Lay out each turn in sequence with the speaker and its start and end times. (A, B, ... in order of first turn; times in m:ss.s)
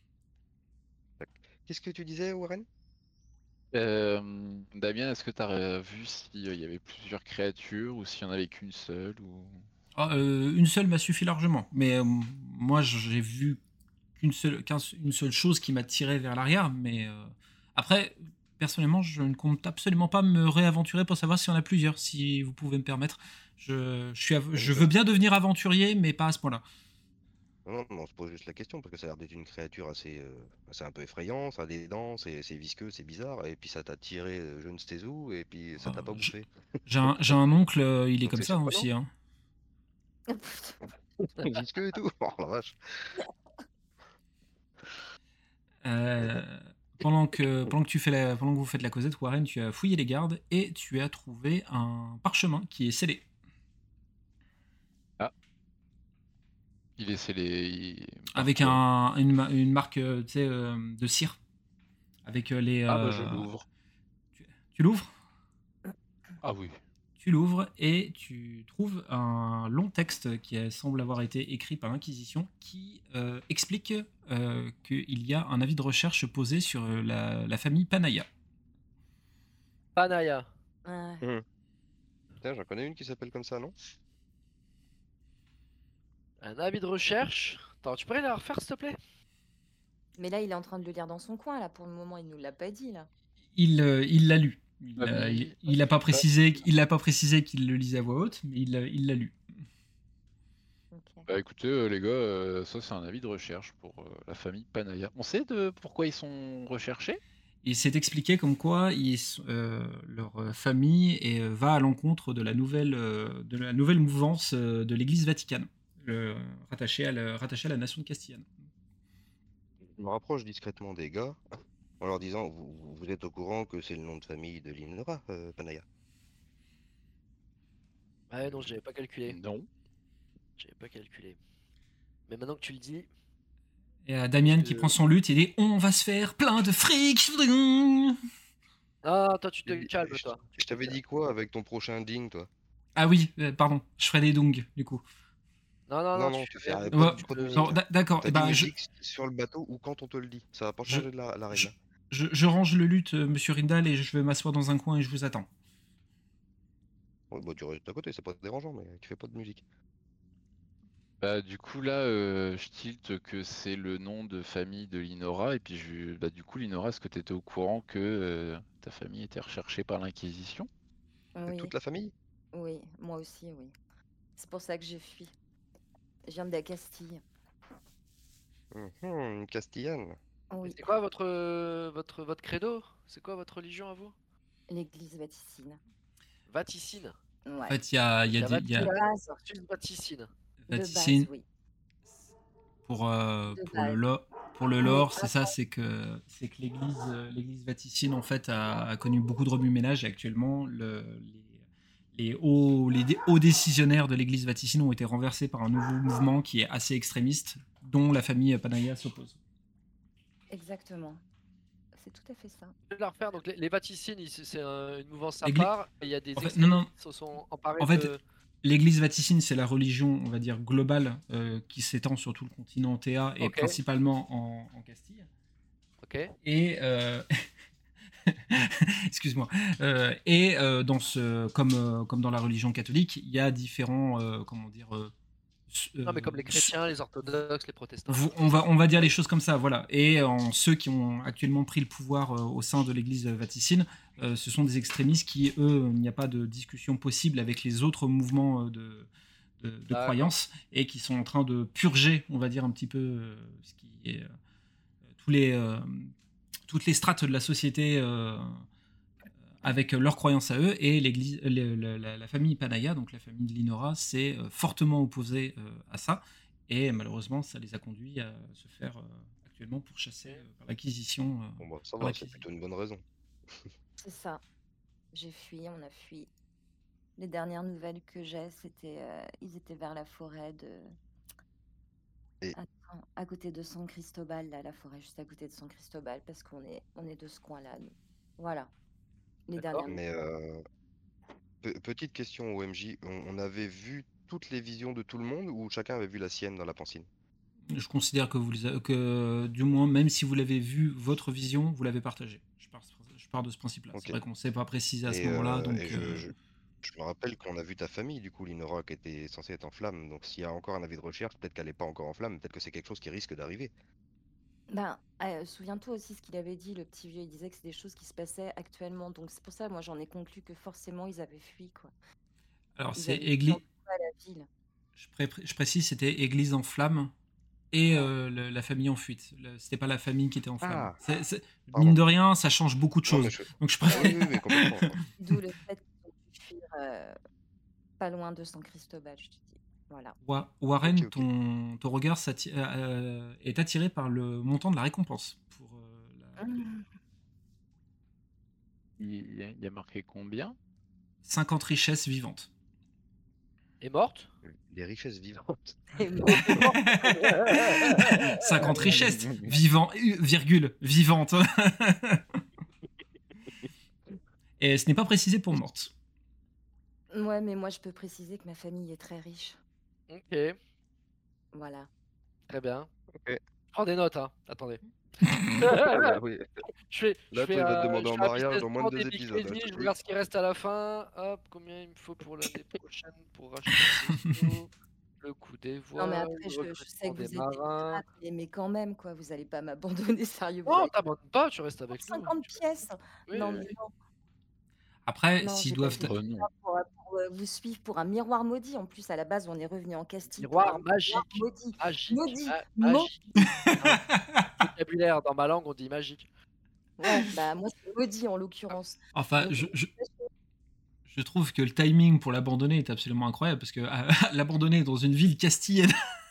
0:01.2-0:02.6 A
0:03.7-0:09.6 B
0:09.9-0:13.6 C
0:14.2-0:26.6 C
0:24.5-0:24.9 A
0:27.6-0:36.5 A
0:35.8-0:36.3 C
0:36.8-0:39.1 C
0:37.1-0:37.3 A
0:38.2-0:38.9 A
0:40.3-0:40.8 D
0:41.2-0:43.1 A
0:45.8-0:53.2 C
0:57.0-0:58.8 B
0:58.3-1:01.4 C
1:02.2-1:03.5 C
1:02.9-1:03.6 A
1:03.0-1:03.5 B
1:04.4-1:05.1 C
1:06.4-1:06.8 B
1:07.2-1:18.3 C
1:20.0-1:20.5 E
1:20.8-1:21.3 D
1:22.4-1:23.7 A
1:26.4-1:29.0 E
1:30.2-1:33.1 D
1:33.5-1:39.4 C
1:35.0-1:36.2 B
1:40.9-1:41.3 D
1:41.3-1:47.2 B
1:47.6-1:58.5 C
1:59.8-2:01.4 A
2:02.0-2:05.8 A
2:08.3-2:09.4 E
2:09.3-2:09.7 B
2:10.6-2:11.4 E
2:12.3-2:13.1 E
2:14.0-2:18.2 C
2:14.5-2:14.9 E
2:19.0-2:21.0 E
2:19.6-2:22.5 A
2:23.0-2:25.0 C
2:25.9-2:27.7 E
2:26.1-2:31.7 A
2:26.9-2:28.7 C
2:30.9-2:35.5 C
2:37.3-2:39.6 A
2:41.2-2:50.7 B
2:51.4-2:51.7 D
2:51.5-2:52.1 A
2:52.5-2:53.7 D
2:54.4-2:55.3 D
2:56.3-2:57.2 D
2:58.7-3:00.2 A
3:00.5-3:00.9 D
3:00.6-3:04.1 E
3:04.7-3:05.8 D
3:06.5-3:07.1 E
3:07.4-3:07.8 D
3:07.7-3:08.9 C
3:08.3-3:10.3 E
3:08.7-3:09.4 D
3:10.6-3:11.3 C
3:10.7-3:11.4 D
3:12.8-3:21.6 C
3:13.5-3:14.0 D
3:14.8-3:15.5 D
3:22.1-3:29.4 C
3:30.5-3:31.2 D
3:31.9-3:32.7 D
3:32.9-3:38.2 E
3:35.4-3:35.7 C
3:36.4-3:36.9 C
3:37.8-3:38.1 C
3:38.6-3:45.3 C
3:43.4-3:43.8 E
3:46.0-3:46.3 E
3:46.4-3:47.4 C
3:48.2-3:55.1 C
3:55.7-3:56.7 C
3:56.0-3:59.1 E
3:58.1-4:14.3 C
4:09.9-4:10.3 E
4:15.2-4:16.1 C
4:16.7-4:18.6 C
4:19.6-4:32.4 C
4:31.6-4:33.6 A
4:34.0-4:34.4 D
4:35.1-4:36.3 D
4:37.2-4:40.9 D
4:42.5-4:48.7 D
4:49.5-4:50.0 D
4:49.8-4:50.6 A
4:51.6-4:57.1 A
4:57.7-5:06.2 C
5:03.9-5:04.2 A
5:05.1-5:13.7 A
5:14.7-5:21.9 D
5:22.8-5:23.6 C
5:23.0-5:24.5 D
5:25.0-5:27.1 C
5:27.7-5:35.0 C
5:27.8-5:28.1 D
5:30.6-5:31.0 A
5:31.7-5:32.0 A
5:33.0-5:35.0 A
5:35.2-5:37.2 D
5:38.0-5:40.2 D
5:40.2-5:46.7 C
5:40.8-5:41.3 A
5:46.4-5:46.8 D
5:49.0-5:50.6 B
5:51.2-5:52.5 C
5:53.8-5:54.3 E
5:54.4-5:55.9 A
5:56.0-5:56.8 D
5:56.5-6:02.4 C
5:57.5-5:58.0 E
5:58.6-5:59.4 A
5:59.1-5:59.4 B
6:04.6-6:05.9 C
6:07.1-6:09.6 D
6:10.1-6:10.6 E
6:11.5-6:11.9 D
6:12.5-6:12.9 E
6:13.7-6:16.2 E
6:15.2-6:15.6 C
6:15.7-6:16.5 A
6:16.9-6:24.7 E
6:17.3-6:19.9 A
6:23.8-6:24.5 C
6:25.2-6:28.0 E
6:26.0-6:30.9 D
6:30.6-6:32.4 E
6:31.9-6:33.9 D
6:33.3-6:33.7 E
6:35.0-6:36.2 C
6:35.4-6:43.1 D
6:36.0-6:36.5 B
6:40.4-6:44.0 E
6:43.5-6:44.5 C
6:44.6-6:46.3 E
6:47.0-6:50.3 D
6:49.1-6:49.9 C
6:51.1-6:56.0 C